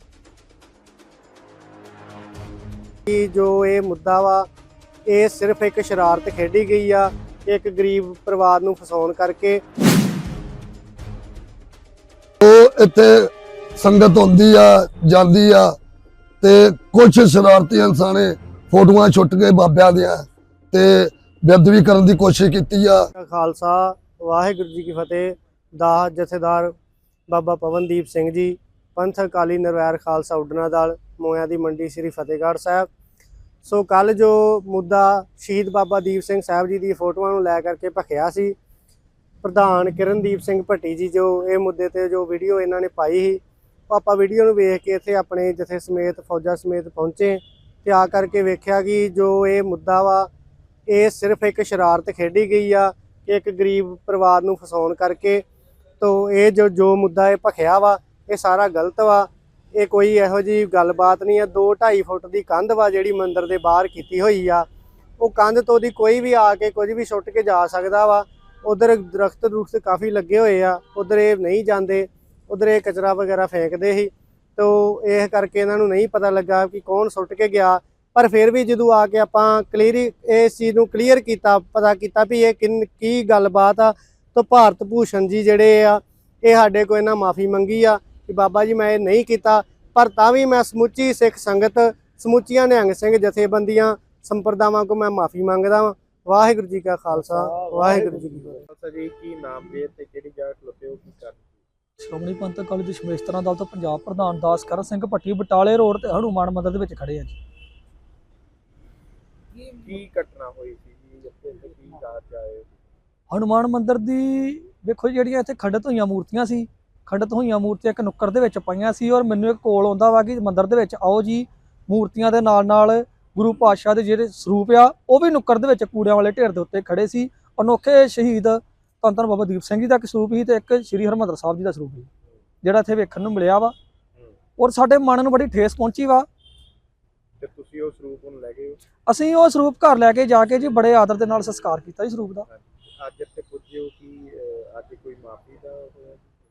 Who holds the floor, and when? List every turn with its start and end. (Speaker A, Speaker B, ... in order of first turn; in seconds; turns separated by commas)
Speaker A: 3.1-4.5, Speaker A: 5.1-9.6, Speaker B: 12.4-15.8, Speaker B: 16.4-23.1, Speaker A: 23.1-26.7, Speaker A: 27.3-32.9, Speaker A: 33.6-38.5, Speaker A: 39.4-50.3, Speaker A: 50.9-55.5, Speaker A: 56.0-64.7, Speaker A: 65.2-98.6, Speaker C: 97.1-101.6, Speaker D: 102.0-107.4, Speaker C: 109.8-112.8, Speaker D: 113.3-132.1, Speaker D: 132.6-133.8, Speaker D: 134.6-136.3, Speaker C: 137.4-138.8, Speaker D: 139.1-142.5, Speaker C: 142.5-146.2